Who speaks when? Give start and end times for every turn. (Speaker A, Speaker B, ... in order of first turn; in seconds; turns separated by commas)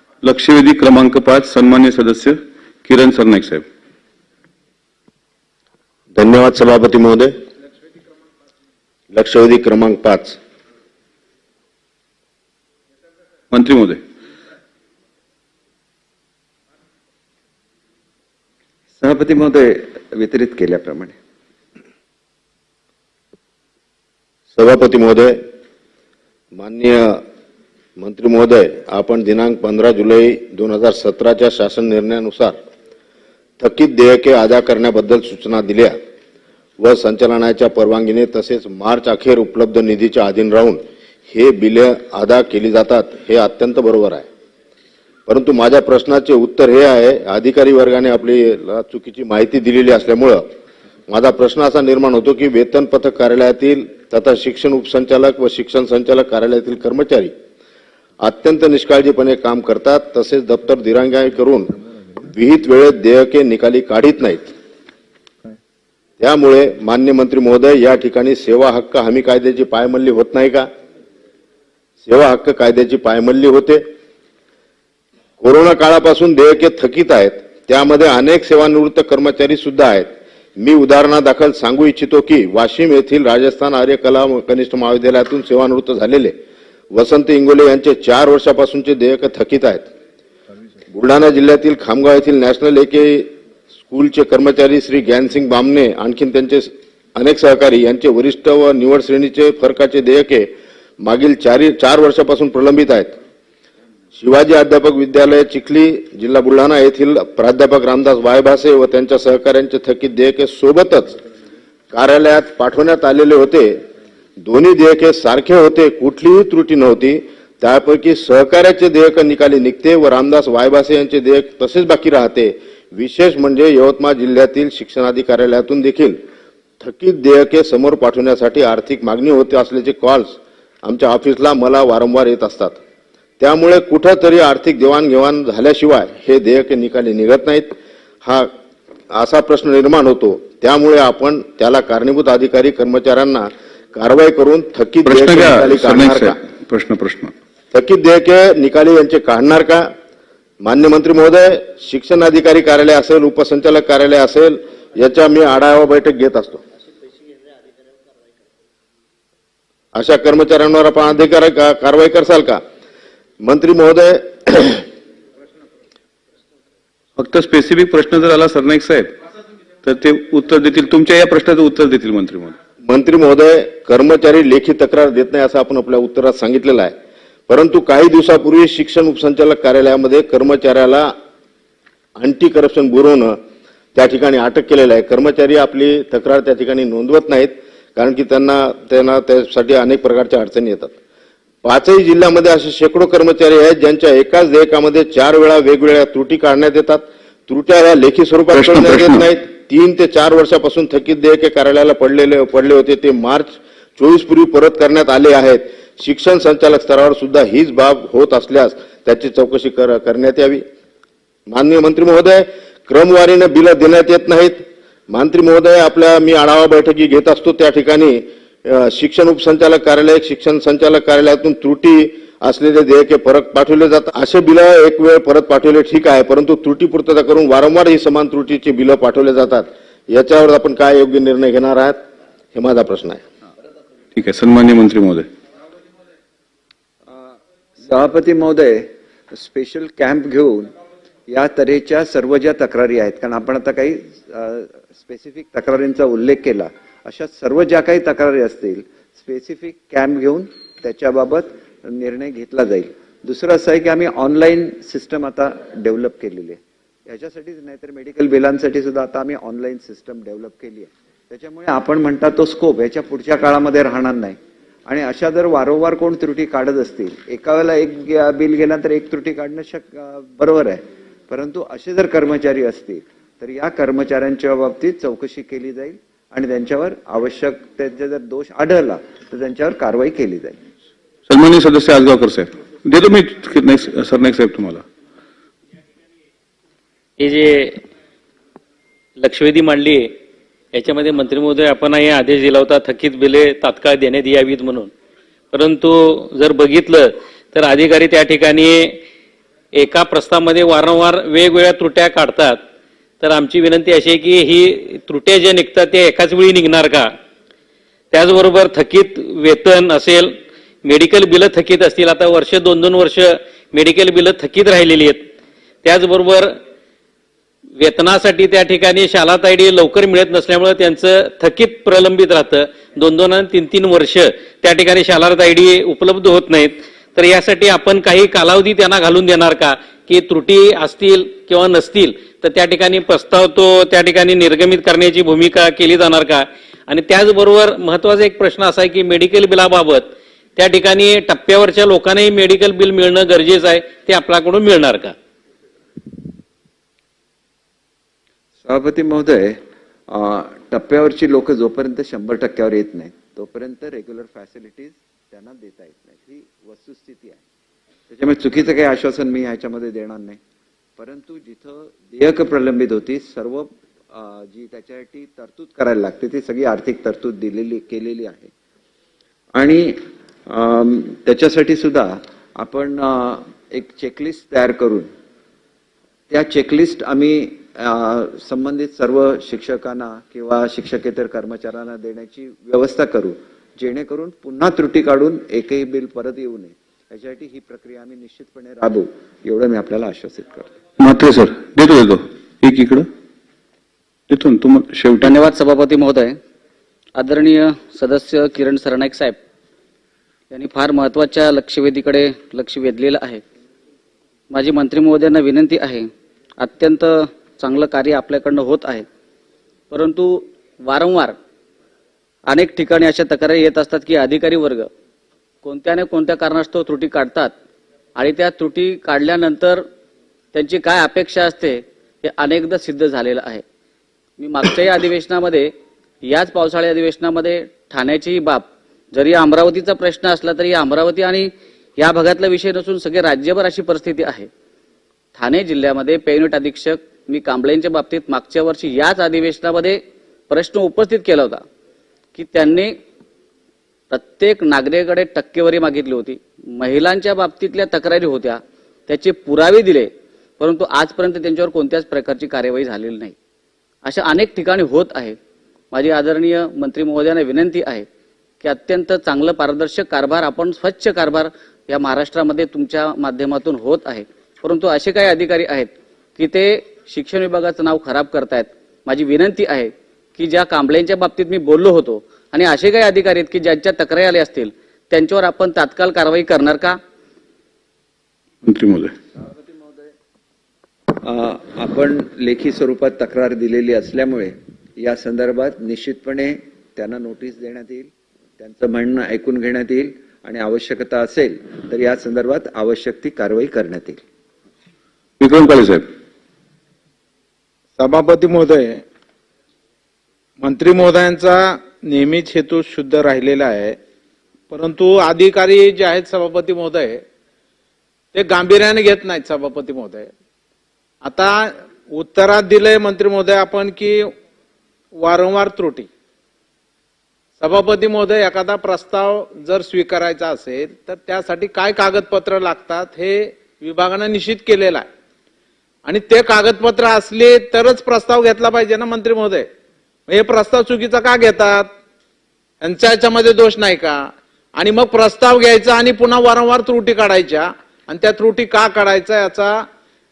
Speaker A: 0.2-3.6, Speaker B: 6.1-7.3, Speaker B: 9.1-10.4, Speaker A: 13.5-14.0, Speaker C: 19.0-21.1, Speaker B: 24.5-25.4, Speaker B: 26.5-27.2, Speaker B: 28.0-32.6, Speaker B: 33.6-35.9, Speaker B: 36.8-44.2, Speaker B: 45.3-50.4, Speaker B: 51.1-57.3, Speaker B: 58.2-61.7, Speaker B: 62.2-64.5, Speaker B: 66.2-70.7, Speaker B: 72.0-73.8, Speaker B: 75.4-86.3, Speaker B: 86.9-89.9, Speaker B: 90.9-93.3, Speaker B: 93.9-103.2, Speaker B: 104.1-111.2, Speaker B: 111.9-113.8, Speaker B: 114.4-126.2, Speaker B: 126.8-132.8, Speaker B: 133.4-138.5, Speaker B: 139.1-146.4, Speaker A: 145.1-147.3, Speaker B: 147.7-149.9, Speaker B: 150.6-156.6, Speaker B: 159.9-162.6, Speaker B: 163.4-164.8, Speaker A: 167.2-169.1, Speaker A: 169.8-172.6, Speaker B: 172.8-176.9, Speaker B: 177.5-181.1, Speaker B: 182.2-183.3, Speaker B: 183.9-190.9, Speaker B: 191.6-210.6, Speaker A: 198.5-199.2, Speaker B: 211.5-232.0, Speaker B: 232.5-233.2, Speaker A: 234.2-235.3, Speaker C: 237.1-240.7, Speaker C: 241.3-280.6, Speaker A: 281.3-284.8, Speaker D: 287.2-287.8, Speaker D: 289.2-290.1, Speaker D: 290.7-294.9, Speaker D: 295.5-299.0, Speaker D: 299.7-302.6, Speaker D: 303.2-307.1, Speaker D: 308.1-315.2, Speaker D: 315.8-316.6, Speaker D: 317.8-345.1, Speaker C: 348.6-357.4, Speaker C: 358.1-360.4, Speaker C: 361.0-368.5, Speaker C: 369.5-375.1, Speaker C: 376.3-390.7, Speaker A: 391.0-393.1, Speaker A: 394.3-395.3, Speaker E: 395.2-396.4, Speaker E: 397.1-399.4, Speaker E: 400.5-403.4, Speaker E: 404.5-409.1, Speaker E: 409.9-411.4, Speaker E: 412.5-414.9, Speaker E: 415.6-417.5, Speaker E: 418.1-419.8, Speaker E: 420.5-423.6, Speaker E: 424.4-425.7, Speaker E: 426.2-434.5, Speaker E: 435.3-441.6, Speaker E: 442.3-442.9, Speaker E: 444.1-453.3, Speaker E: 454.0-455.4, Speaker E: 455.9-458.1, Speaker E: 458.6-477.0, Speaker A: 478.6-479.1, Speaker C: 479.4-480.1, Speaker C: 481.2-494.2, Speaker A: 495.4-496.0, Speaker F: 498.0-499.0, Speaker F: 500.6-503.9, Speaker F: 504.7-507.2, Speaker F: 508.3-510.3, Speaker F: 511.2-514.3, Speaker F: 515.1-516.1, Speaker F: 517.6-525.0, Speaker F: 526.0-529.7, Speaker F: 530.3-531.9, Speaker F: 532.8-539.8